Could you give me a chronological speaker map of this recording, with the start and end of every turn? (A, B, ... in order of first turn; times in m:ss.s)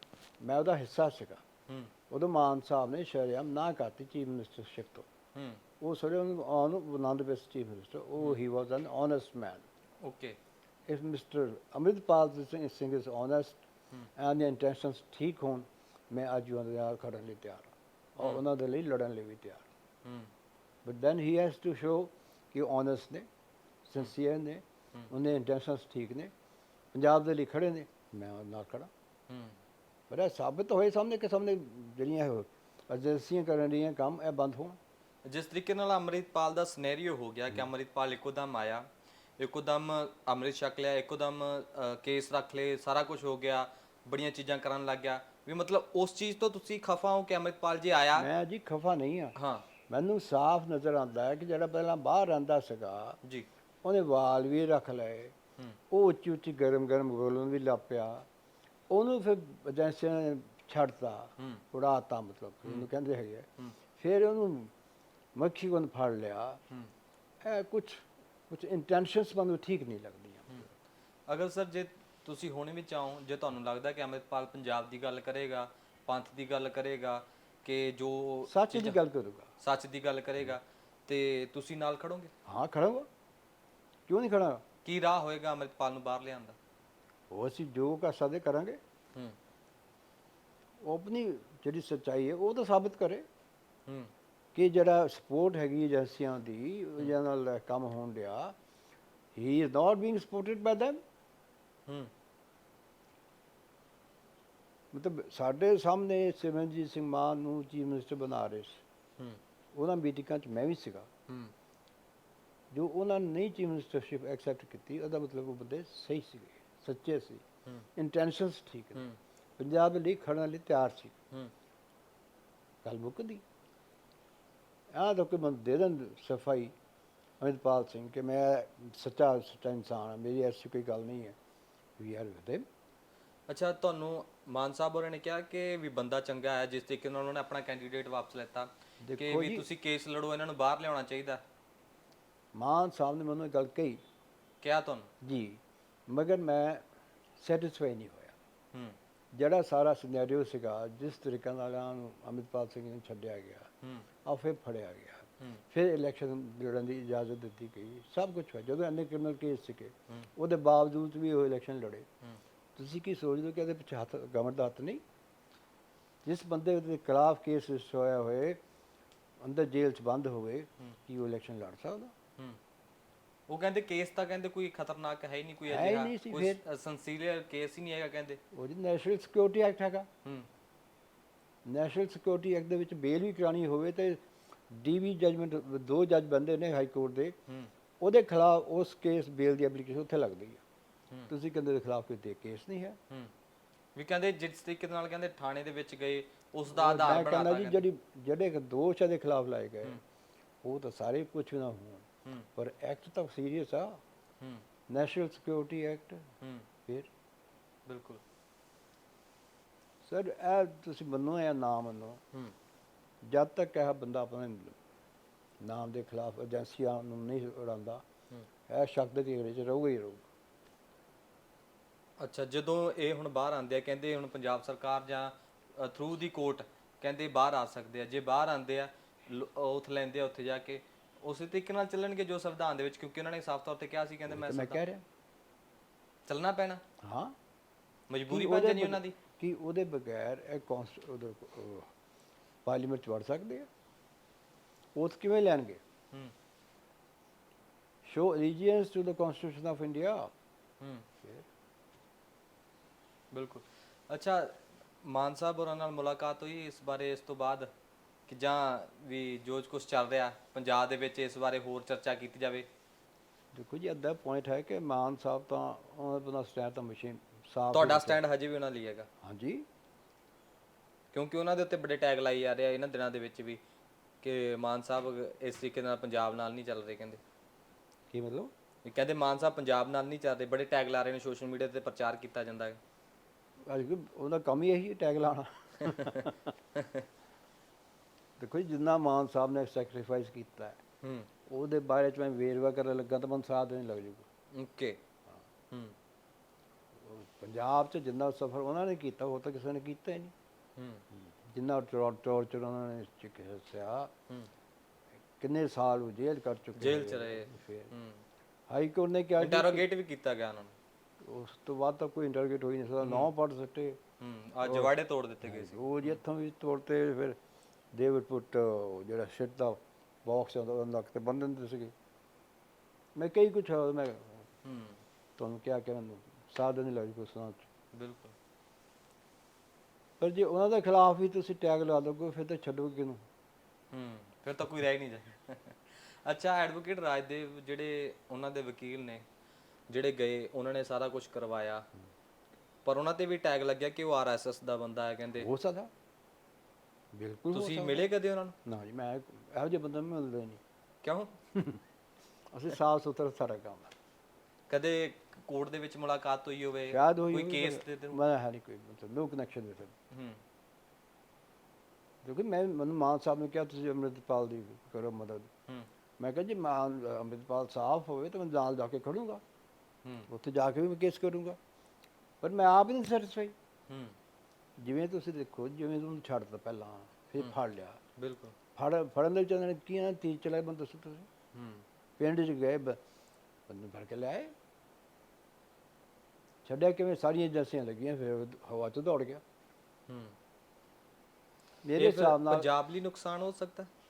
0:00.4-0:01.4 A
0:02.1-0:05.1 A
0:05.3-0:05.6 B
0:05.8-0:09.6 A
0:10.0-0:10.4 B
0:10.9-0:13.6 A
0:14.2-0:19.6 A
0:20.0-0:20.3 B
0:20.8-0:23.2 A
0:23.8-0:26.3 A
0:26.9-0:28.9 A
0:29.3-0:29.6 B
0:30.1-0:34.8 A
0:35.2-0:38.8 B
0:39.4-0:48.3 B
0:48.2-0:49.4 A
0:49.4-0:49.7 B
0:49.9-0:53.2 A
0:53.8-0:55.3 A
0:55.9-0:58.2 A
0:58.9-1:04.7 A
1:05.4-1:06.6 A
1:07.4-1:10.7 A
1:11.3-1:19.0 B
1:18.5-1:19.5 A
1:19.6-1:22.3 B
1:22.4-1:23.1 A
1:24.1-1:24.6 A
1:24.8-1:26.6 B
1:27.3-1:28.8 A
1:30.8-1:33.2 A
1:34.5-1:38.5 A
1:39.3-1:41.0 A
1:44.9-1:48.8 A
1:49.7-1:51.1 A
1:51.3-1:51.5 B
1:52.7-1:57.4 A
1:58.0-1:59.0 A
1:59.6-2:01.1 A
2:02.8-2:03.4 A
2:04.9-2:06.7 A
2:07.4-2:11.4 A
2:12.0-2:12.6 A
2:13.5-2:21.4 B
2:19.0-2:19.6 A
2:22.5-2:24.0 A
2:24.6-2:25.1 B
2:25.2-2:26.8 A
2:27.4-2:28.4 A
2:29.3-2:33.7 A
2:33.8-2:34.1 B
2:34.2-2:42.1 A
2:42.8-2:45.0 A
2:46.2-2:48.6 A
2:49.4-2:52.1 A
2:53.5-2:58.4 B
2:55.6-2:56.6 A
2:58.5-3:00.1 A
3:01.6-3:07.4 A
3:08.0-3:10.6 A
3:11.3-3:13.0 A
3:13.9-3:17.9 B
3:16.7-3:20.0 A
3:20.6-3:24.0 A
3:24.9-3:26.3 A
3:26.4-3:26.6 B
3:27.9-3:28.2 B
3:30.0-3:32.2 A
3:33.2-3:34.8 A
3:35.6-3:38.0 A
3:38.7-3:40.2 A
3:42.2-3:54.8 B
3:54.3-3:55.0 A
3:56.2-3:56.8 B
3:57.0-3:57.3 A
3:58.1-3:59.2 B
3:58.3-4:01.9 A
4:02.6-4:03.7 A
4:05.0-4:05.8 A
4:08.0-4:10.3 A
4:10.8-4:11.0 B
4:13.3-4:17.7 B
4:18.3-4:22.7 B
4:23.5-4:28.2 A
4:27.7-4:29.1 B
4:29.2-4:29.6 A
4:31.1-4:33.6 B
4:34.2-4:37.2 B
4:38.1-4:38.5 A
4:38.8-4:42.8 B
4:43.6-4:46.4 A
4:45.8-4:47.0 B
4:48.4-4:50.8 A
4:51.0-4:51.3 B
4:51.4-4:54.2 A
4:54.5-4:55.0 B
4:55.7-4:56.0 B
4:57.0-5:00.3 A
5:00.8-5:01.0 B
5:01.4-5:04.1 A
5:05.4-5:07.9 A
5:06.7-5:08.2 B
5:08.7-5:09.9 A
5:09.4-5:10.7 B
5:11.2-5:14.0 A
5:13.0-5:13.3 B
5:14.2-5:16.2 B
5:14.6-5:17.4 A
5:17.9-5:21.9 A
5:23.2-5:24.5 A
5:24.6-5:25.0 B
5:25.4-5:27.7 A
5:27.9-5:28.3 B
5:30.2-5:33.2 A
5:33.9-5:39.2 B
5:39.9-5:41.8 B
5:42.8-5:45.5 B
5:45.3-5:45.9 A
5:47.1-5:48.1 A
5:47.5-5:48.6 B
5:48.6-5:50.6 A
5:51.0-5:51.4 B
5:51.5-5:51.8 A
5:52.5-5:53.9 A
5:54.7-5:58.2 B
5:56.9-5:59.9 A
6:00.1-6:00.4 B
6:02.2-6:05.5 A
6:06.2-6:09.4 A
6:10.3-6:11.6 A
6:12.4-6:13.5 A
6:13.9-6:14.2 B
6:14.8-6:18.0 A
6:18.2-6:18.5 B
6:18.8-6:21.3 A
6:21.5-6:21.8 B
6:22.2-6:23.0 A
6:23.7-6:24.5 A
6:26.6-6:29.4 A
6:30.1-6:30.4 B
6:31.8-6:32.7 A
6:32.0-6:33.9 B